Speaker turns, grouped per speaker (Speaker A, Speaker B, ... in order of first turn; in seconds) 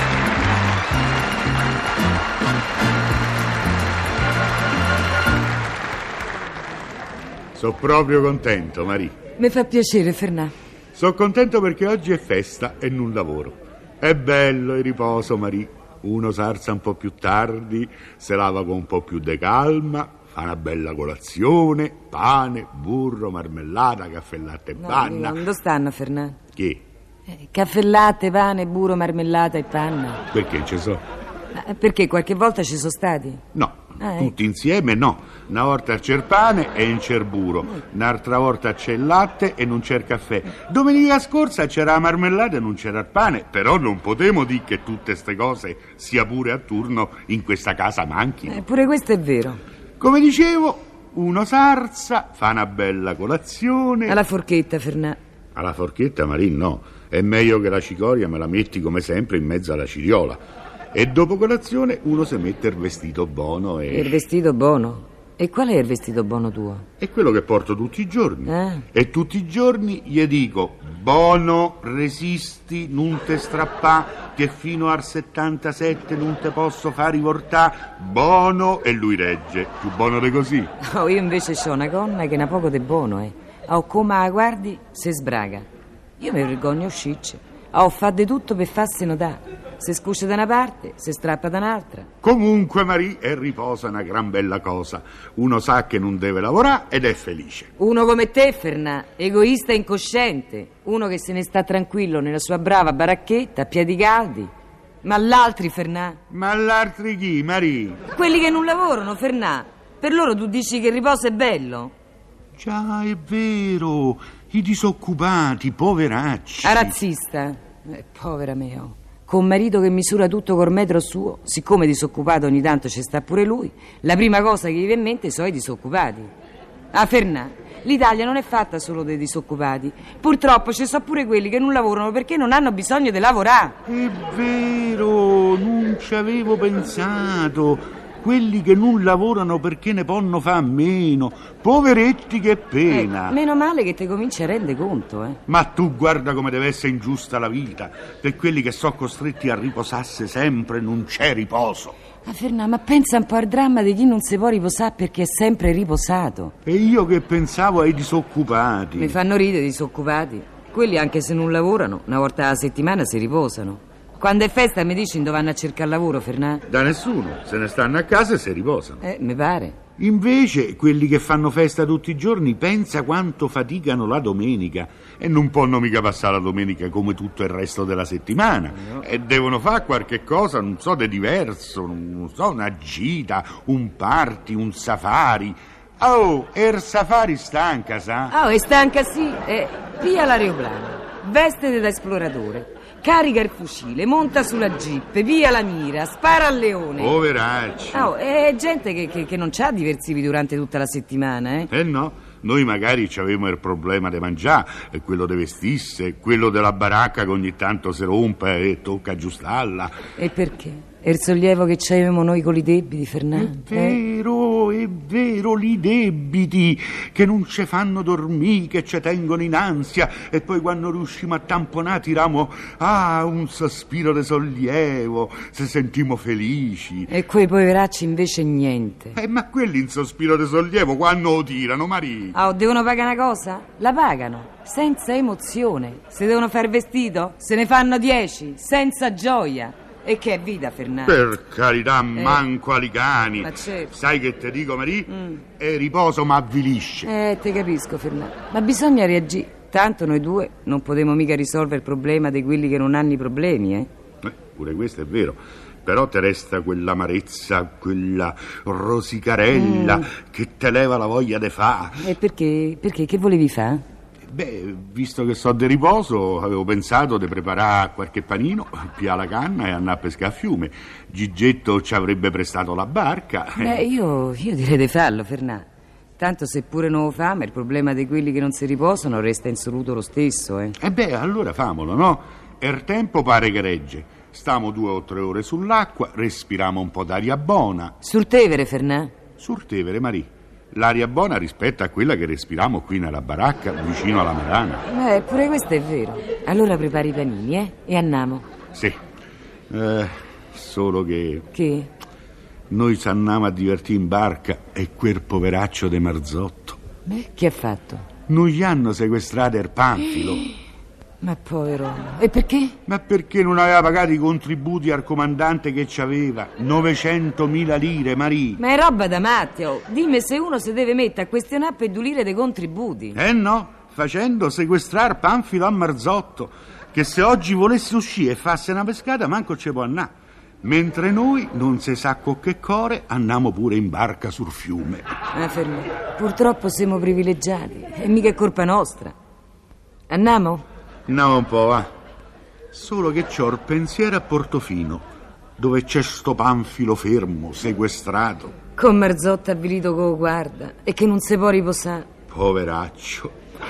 Speaker A: 7.5-9.1, 10.9-25.4, 26.6-26.8, 30.3-31.0, 33.5-48.6, 50.0-54.2, 55.5-60.4, 60.9-64.2, 67.0-80.7, 92.2-97.7, 106.3-108.0, 112.5-117.0, 133.8-143.4, 145.5-151.9, 156.6-159.2, 166.7-169.0, 170.0-188.3, 197.0-198.1, 201.7-210.0, 213.3-227.1, 229.1-232.4, 241.0-247.1, 254.2-262.1, 264.3-273.8, 280.8-287.9, 289.4-294.9, 299.7-301.5, 302.7-306.8, 308.3-310.5, 312.9-318.6, 323.1-330.1, 330.6-335.1, 341.1-341.9, 342.7-345.0, 345.6-348.6, 352.3-353.3
Speaker B: 9.4-10.5, 24.8-26.4, 27.3-30.2, 31.5-33.4, 34.0-34.3, 48.5-49.6, 54.0-55.2, 63.9-66.8, 68.5-68.8, 80.8-85.7, 86.2-92.1, 97.8-104.5, 105.0-106.2, 108.1-111.9, 116.6-126.3, 126.9-133.8, 142.9-145.4, 152.2-156.5, 158.9-166.6, 169.0-169.8, 188.3-197.2, 197.9-201.7, 210.2-214.0, 227.1-229.2, 232.3-241.2, 242.1-242.4, 243.4-243.9, 247.0-253.9, 259.5-260.1, 262.0-263.8, 273.6-275.7, 276.2-280.8, 288.0-289.1, 294.9-298.4, 301.5-301.9, 307.1-308.1, 311.2-312.7, 318.6-323.2, 335.3-339.1, 340.1-340.6, 348.8-352.1